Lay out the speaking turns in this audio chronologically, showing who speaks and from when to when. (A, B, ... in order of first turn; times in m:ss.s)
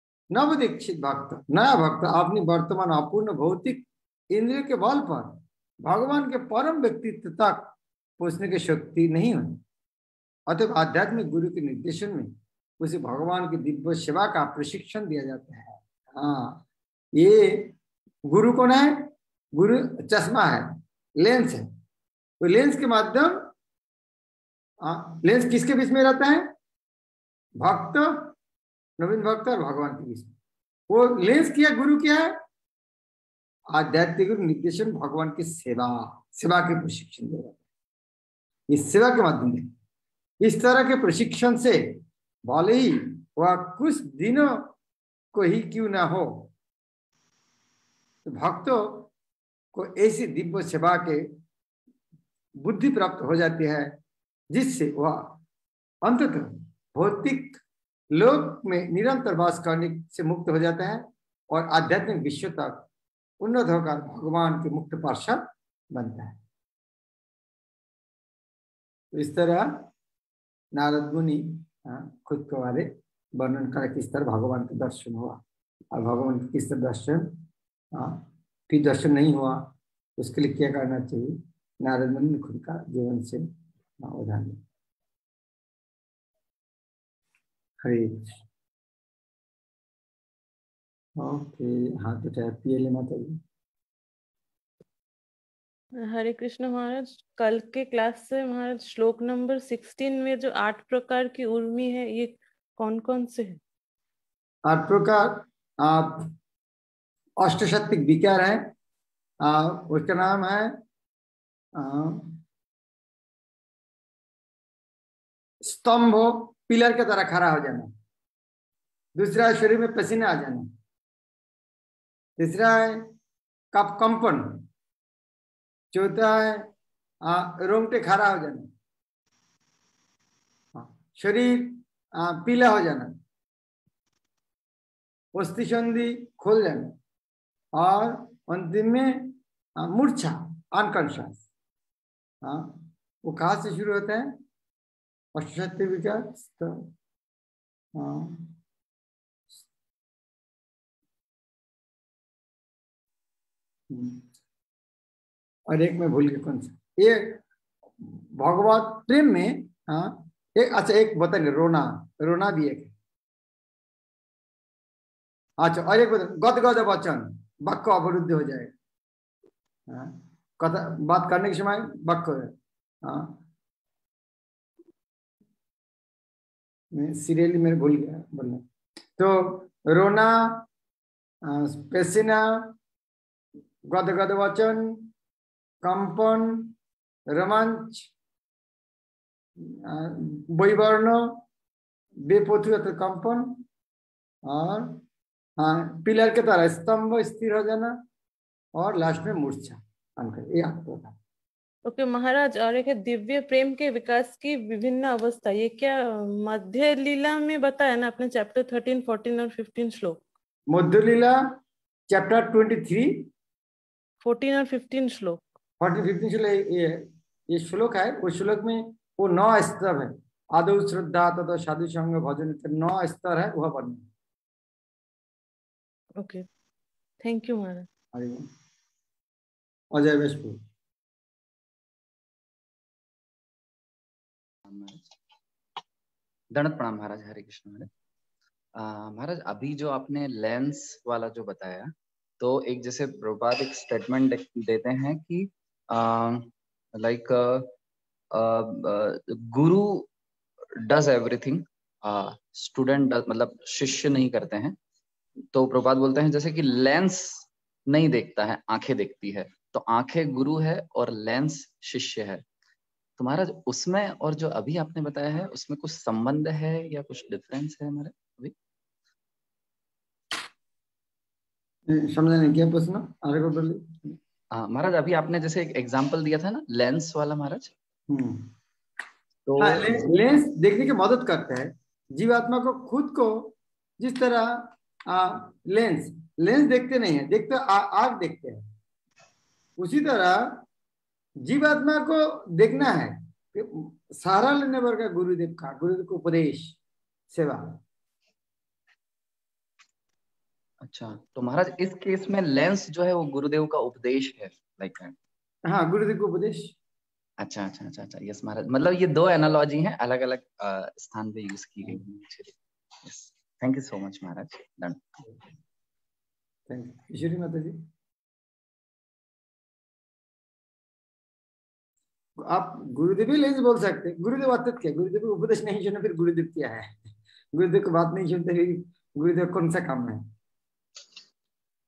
0:00.3-0:09.6 A
0:10.5-0:16.6 A
0:17.2-0:17.7 A
0:18.3-0:21.7 A
0:22.4-0:23.5 A
0:24.8-0:26.5 A
0:27.6-0:28.3 A
0:29.0-0:30.3 A
0:30.9-0:32.4 A
0:33.7-0:37.6 A
0:38.7-0:39.7 A
0:40.4-0:42.0 A
0:42.5-0:44.7 A
0:45.3-0:46.5 A
0:48.3-0:49.1 A
0:49.7-0:51.2 A
0:52.6-0:53.9 A
0:54.5-0:55.4 A
0:56.0-0:57.6 A
0:58.1-1:02.9 A
1:03.4-1:06.4 A
1:09.1-1:09.9 A
1:10.8-1:15.4 A
1:15.9-1:17.3 A
1:17.9-1:19.6 A
1:20.2-1:23.4 A
1:24.0-1:24.6 A
1:27.8-1:28.4 A
1:31.2-1:33.4 A
1:36.0-1:43.6 B
1:44.7-1:46.3 A
1:47.4-1:48.7 A
1:49.4-1:50.8 A
1:51.8-1:52.4 A
1:55.6-1:57.9 A
1:59.2-2:00.7 A
2:02.4-2:03.1 A
2:03.7-2:04.6 A
2:05.9-2:06.7 A
2:07.2-2:08.7 A
2:10.7-2:13.1 A
2:15.4-2:16.9 A
2:17.8-2:21.4 A
2:22.4-2:24.3 A
2:25.4-2:26.8 A
2:28.0-2:28.5 A
2:33.9-2:34.2 A
2:35.7-2:37.4 A
2:38.0-2:42.9 A
2:45.6-2:48.7 A
2:49.9-2:52.5 A
2:53.0-2:53.4 A
2:56.9-2:58.6 A
2:59.2-3:00.6 A
3:01.4-3:02.7 A
3:03.9-3:05.1 A
3:05.8-3:06.7 A
3:07.3-3:08.1 A
3:09.6-3:11.4 A
3:12.3-3:13.6 A
3:14.5-3:15.0 A
3:15.6-3:18.0 A
3:18.8-3:21.2 A
3:21.9-3:30.2 B
3:30.7-3:31.4 A
3:32.1-3:33.3 A
3:34.2-3:35.4 B
3:35.8-3:44.1 A
3:46.2-3:46.4 B
3:47.2-3:47.9 B
3:48.1-3:48.5 A
3:49.9-3:50.6 A
3:54.6-3:55.1 C
3:56.5-3:57.9 C
3:58.8-4:07.7 C
4:08.3-4:10.1 C
4:10.8-4:14.8 C
4:15.5-4:22.4 C
4:23.2-4:28.5 C
4:31.9-4:34.2 A
4:34.5-4:37.7 C
4:38.1-4:38.5 A
4:39.4-4:40.2 C
4:39.6-4:48.6 A
4:49.8-4:50.6 A
4:51.4-4:56.8 A
4:57.3-4:57.8 A
5:00.8-5:05.1 C
5:05.7-5:06.7 A
5:07.4-5:15.1 C
5:16.7-5:17.8 A
5:22.4-5:27.0 A
5:27.5-5:30.2 A